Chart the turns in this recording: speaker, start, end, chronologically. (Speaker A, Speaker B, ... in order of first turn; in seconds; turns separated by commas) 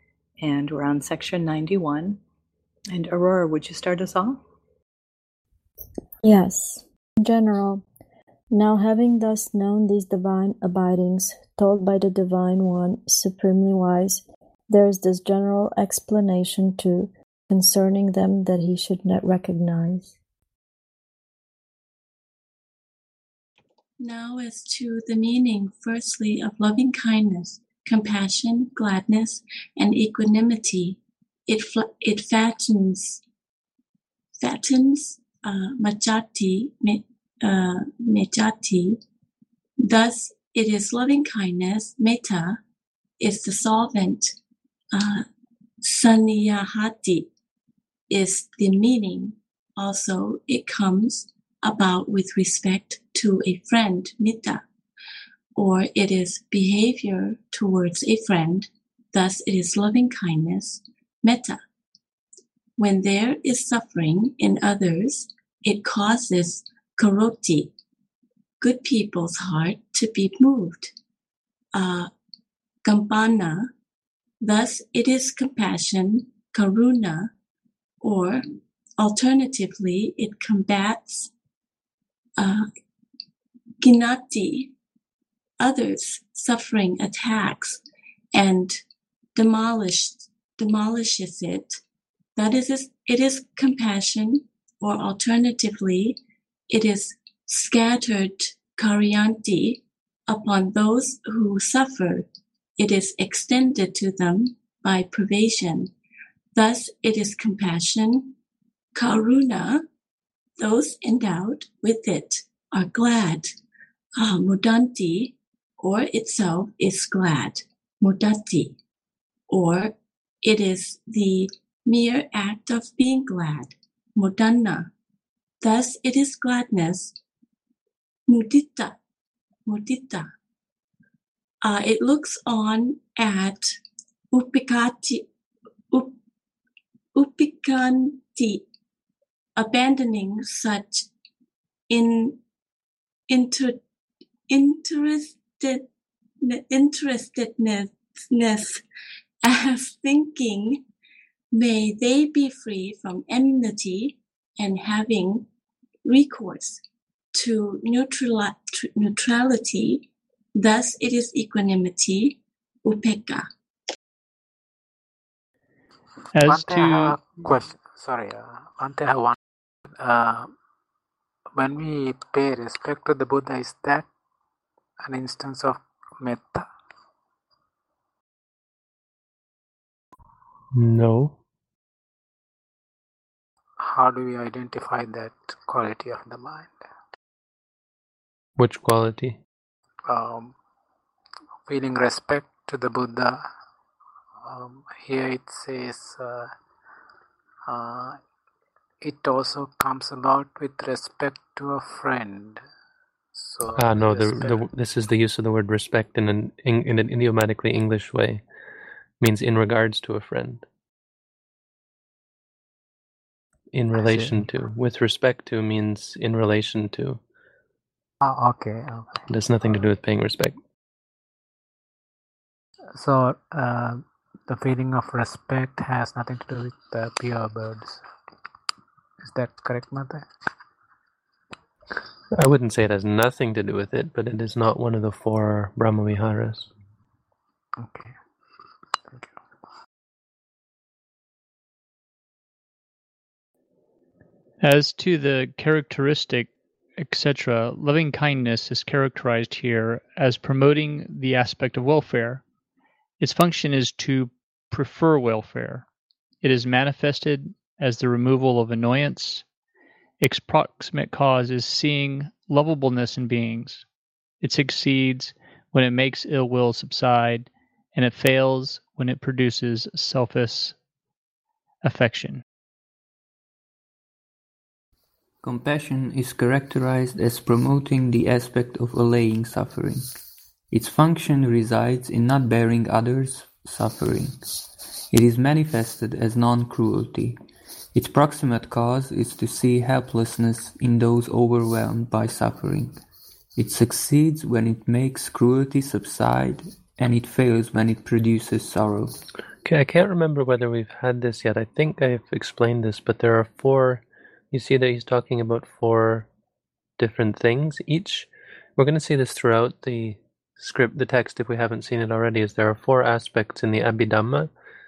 Speaker A: 0.4-2.2, Speaker A: 2.9-4.4, Speaker B: 6.2-7.8, Speaker B: 8.5-20.2, Speaker C: 24.0-33.2, Speaker C: 34.4-39.0, Speaker C: 39.8-42.6, Speaker C: 43.2-44.3, Speaker C: 44.9-45.2, Speaker C: 45.8-47.3, Speaker C: 48.1-54.6, Speaker C: 55.5-61.6, Speaker C: 62.8-67.7, Speaker C: 68.6-70.9, Speaker C: 71.7-72.1, Speaker C: 72.8-73.7, Speaker C: 74.4-77.3, Speaker C: 78.0-78.4, Speaker C: 79.0-81.3, Speaker C: 82.4-82.7, Speaker C: 83.8-84.7, Speaker C: 85.6-87.8, Speaker C: 88.3-88.8, Speaker C: 89.4-91.8, Speaker C: 92.4-102.3, Speaker C: 102.8-105.9, Speaker C: 106.5-108.3, Speaker C: 108.9-109.9, Speaker C: 110.6-113.5, Speaker C: 114.2-118.8, Speaker C: 119.5-124.9, Speaker C: 125.6-127.1, Speaker C: 128.3-129.0, Speaker C: 129.7-130.3, Speaker C: 131.6-133.8, Speaker C: 134.3-135.3, Speaker C: 135.9-136.2, Speaker C: 137.2-138.7, Speaker C: 139.6-141.1, Speaker C: 141.9-142.4, Speaker C: 143.3-143.8, Speaker C: 144.5-145.9, Speaker C: 146.4-148.8, Speaker C: 149.4-150.8, Speaker C: 151.5-155.5, Speaker C: 156.1-156.8, Speaker C: 157.3-163.5, Speaker D: 166.3-167.2, Speaker E: 166.4-169.4, Speaker E: 170.0-170.5, Speaker E: 171.6-174.1, Speaker E: 175.0-176.7, Speaker F: 180.7-181.4, Speaker E: 183.8-186.8, Speaker F: 188.6-189.4, Speaker E: 190.1-190.5, Speaker E: 191.7-193.5, Speaker E: 194.4-196.5, Speaker E: 197.7-198.2, Speaker E: 199.0-202.6, Speaker E: 203.3-204.6, Speaker F: 203.8-208.4, Speaker F: 209.2-210.7, Speaker F: 213.7-217.2, Speaker E: 214.0-214.4, Speaker E: 218.2-219.2, Speaker F: 219.3-220.6, Speaker E: 222.9-228.0, Speaker E: 229.2-230.3, Speaker F: 232.3-236.7, Speaker E: 237.8-238.1, Speaker D: 244.6-252.4, Speaker D: 253.2-255.8, Speaker D: 256.4-259.4, Speaker D: 260.2-263.8, Speaker D: 264.4-270.8, Speaker D: 271.8-272.4, Speaker G: 275.4-280.2, Speaker G: 280.7-287.4, Speaker G: 287.9-293.0, Speaker G: 293.6-299.2, Speaker F: 299.6-306.3, Speaker F: 307.0-314.5